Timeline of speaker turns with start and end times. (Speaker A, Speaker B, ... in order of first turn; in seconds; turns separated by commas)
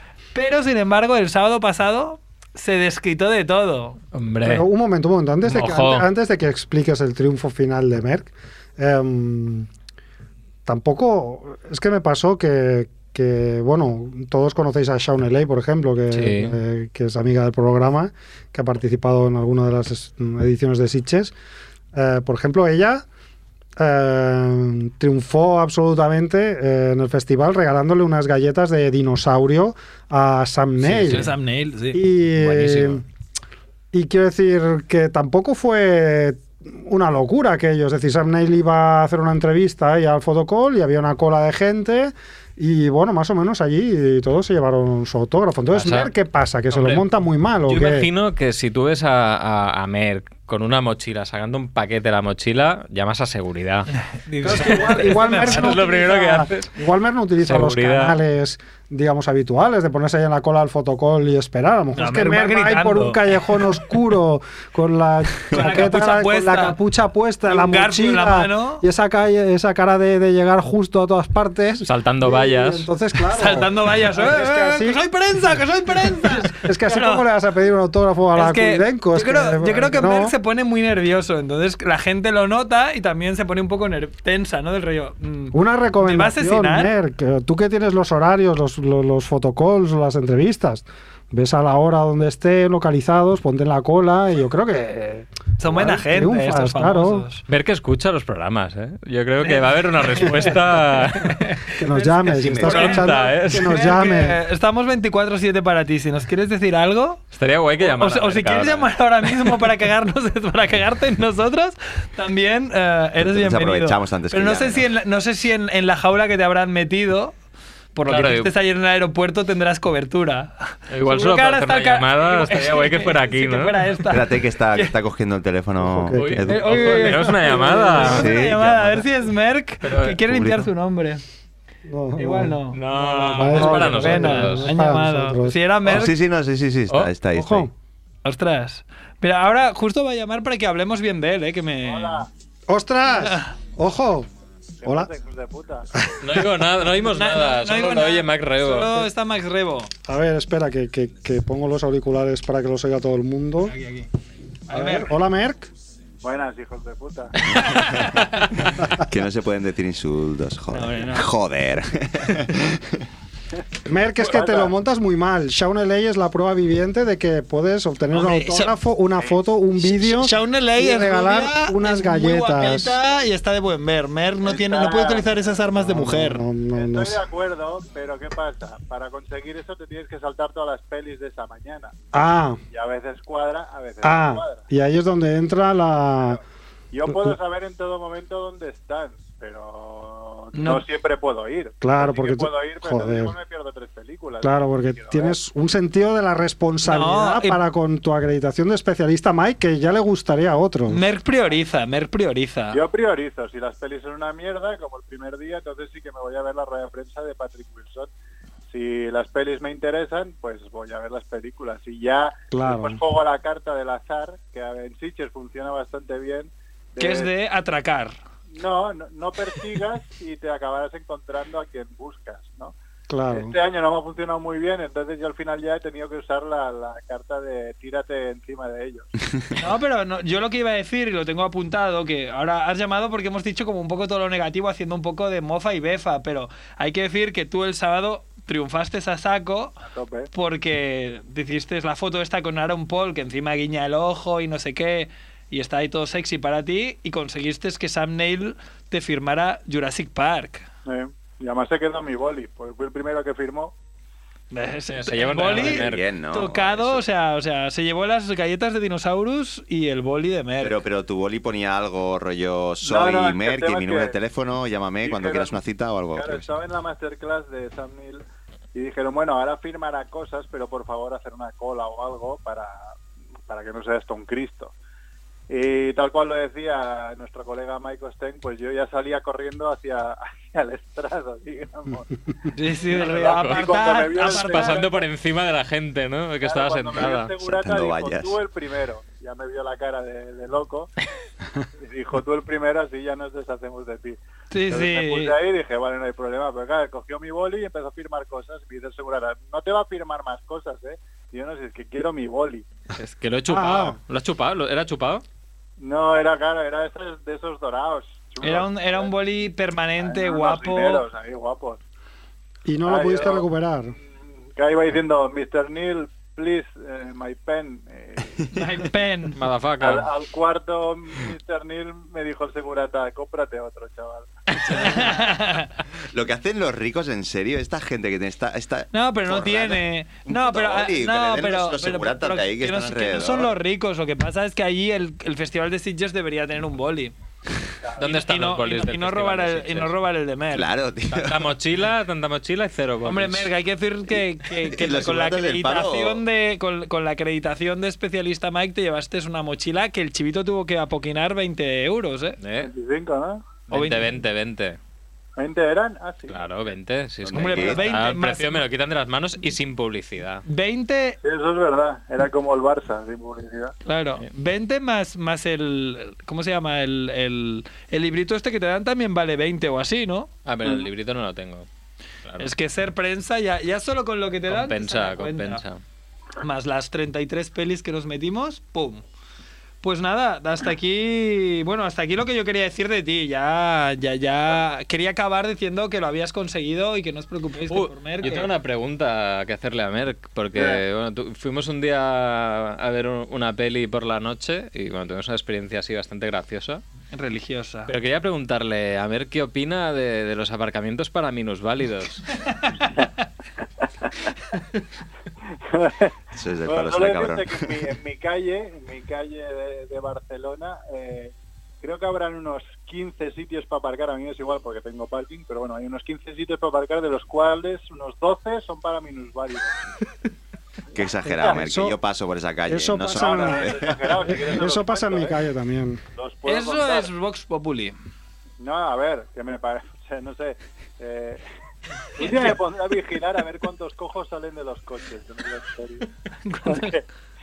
Speaker A: 0.3-4.0, Speaker B: 4.1-4.7, Speaker C: 4.4-9.7, Speaker B: 5.5-6.1, Speaker C: 10.6-21.3, Speaker B: 16.1-16.6, Speaker C: 21.9-23.0, Speaker C: 23.8-31.3, Speaker B: 30.8-31.3, Speaker A: 31.0-32.0, Speaker C: 31.9-33.0, Speaker B: 32.4-33.0, Speaker C: 33.9-48.1, Speaker B: 45.7-46.1, Speaker B: 46.7-47.0, Speaker B: 47.6-53.9, Speaker A: 54.2-56.0, Speaker C: 54.4-80.3, Speaker B: 54.5-56.7, Speaker B: 57.4-58.2, Speaker A: 61.9-63.6, Speaker A: 65.5-66.8, Speaker A: 67.5-68.8, Speaker B: 71.8-72.9, Speaker A: 73.3-77.2, Speaker A: 78.3-86.9, Speaker C: 85.5-97.2, Speaker A: 95.6-97.4, Speaker B: 97.5-101.4, Speaker A: 99.4-107.2, Speaker C: 101.8-104.4, Speaker D: 102.3-103.0, Speaker B: 102.6-103.7, Speaker B: 107.3-109.6, Speaker A: 107.8-117.3, Speaker D: 113.2-114.9, Speaker A: 117.9-124.9, Speaker B: 118.0-118.5, Speaker B: 120.9-123.9, Speaker D: 124.1-127.2, Speaker C: 125.8-126.4, Speaker B: 126.1-128.3, Speaker A: 126.5-131.2, Speaker D: 128.0-129.1, Speaker B: 129.8-130.2, Speaker D: 130.3-130.6, Speaker C: 131.8-132.6, Speaker A: 132.2-136.1, Speaker B: 132.7-134.7, Speaker C: 133.3-135.6, Speaker D: 135.8-137.7, Speaker C: 137.3-137.7, Speaker A: 138.2-142.3, Speaker E: 141.8-142.3, Speaker C: 142.7-144.3, Speaker A: 143.2-143.5, Speaker E: 144.8-145.9, Speaker C: 144.8-145.1, Speaker C: 146.0-146.5, Speaker B: 146.2-149.1, Speaker A: 147.1-149.9, Speaker C: 150.1-153.7, Speaker A: 153.7-154.1, Speaker A: 154.7-155.1, Speaker C: 154.7-155.7, Speaker E: 156.2-157.3, Speaker A: 157.4-158.6, Speaker D: 157.7-158.0, Speaker D: 158.9-162.8, Speaker A: 160.7-161.3, Speaker C: 163.8-173.0, Speaker E: 164.2-164.7, Speaker A: 168.1-168.7, Speaker A: 169.8-176.4, Speaker E: 174.4-175.4, Speaker C: 175.7-177.2, Speaker E: 176.7-182.0, Speaker C: 182.1-182.6, Speaker E: 182.7-184.7, Speaker C: 184.0-186.4, Speaker E: 186.9-195.4, Speaker C: 187.1-187.3, Speaker A: 190.5-190.8, Speaker C: 191.8-193.3, Speaker C: 194.4-201.0, Speaker A: 196.8-197.6, Speaker A: 200.9-202.8, Speaker E: 202.7-208.1, Speaker E: 208.7-217.3, Speaker C: 212.5-213.0, Speaker A: 217.0-218.1, Speaker E: 218.5-222.7, Speaker C: 223.1-223.5, Speaker E: 223.3-229.1, Speaker A: 229.6-239.8, Speaker E: 239.8-240.3, Speaker A: 240.3-250.7, Speaker E: 250.8-253.7, Speaker A: 254.5-260.8, Speaker B: 254.9-256.1, Speaker D: 255.4-257.0, Speaker D: 260.6-266.5, Speaker E: 262.8-264.1, Speaker E: 265.0-265.6, Speaker E: 266.1-272.9, Speaker E: 273.5-274.7, Speaker E: 275.5-282.1, Speaker A: 282.5-284.9, Speaker E: 282.9-285.0, Speaker B: 282.9-287.3, Speaker E: 286.4-290.9, Speaker D: 287.4-288.4, Speaker E: 291.8-302.6, Speaker A: 294.5-295.3, Speaker B: 303.0-305.2, Speaker C: 303.5-304.0, Speaker E: 305.8-309.4, Speaker A: 308.4-311.0, Speaker E: 310.0-311.8, Speaker C: 312.6-313.9, Speaker E: 312.8-313.4, Speaker E: 314.5-318.3, Speaker A: 318.5-319.4, Speaker B: 319.4-320.1, Speaker E: 319.8-325.1, Speaker A: 324.6-325.7, Speaker D: 326.1-333.5, Speaker A: 328.9-337.1, Speaker B: 338.0-339.9, Speaker A: 338.0-340.7, Speaker D: 340.5-341.6, Speaker B: 341.1-343.5, Speaker A: 343.0-352.4, Speaker D: 344.7-346.2, Speaker B: 352.4-352.7, Speaker E: 352.6-353.5, Speaker B: 353.7-354.8, Speaker A: 353.7-354.1, Speaker E: 355.4-356.6, Speaker B: 356.3-360.4, Speaker D: 357.2-357.8, Speaker A: 357.3-358.6, Speaker A: 360.4-361.2, Speaker E: 361.2-363.7, Speaker A: 363.8-370.3, Speaker B: 370.4-371.7, Speaker B: 372.2-372.5, Speaker A: 372.4-375.6, Speaker B: 374.5-375.8, Speaker A: 376.4-379.0, Speaker A: 379.8-388.5, Speaker B: 387.7-396.8, Speaker E: 390.5-390.8, Speaker A: 397.1-397.9, Speaker B: 397.9-402.3, Speaker E: 405.7-406.1, Speaker D: 406.3-407.8, Speaker E: 406.6-419.8, Speaker D: 420.9-424.3, Speaker C: 421.2-422.0, Speaker C: 422.7-426.0, Speaker E: 423.1-425.4, Speaker E: 426.1-427.1, Speaker A: 426.4-427.9, Speaker E: 428.6-431.4, Speaker E: 432.2-436.1, Speaker A: 432.2-432.5, Speaker A: 436.4-437.0, Speaker E: 436.6-437.0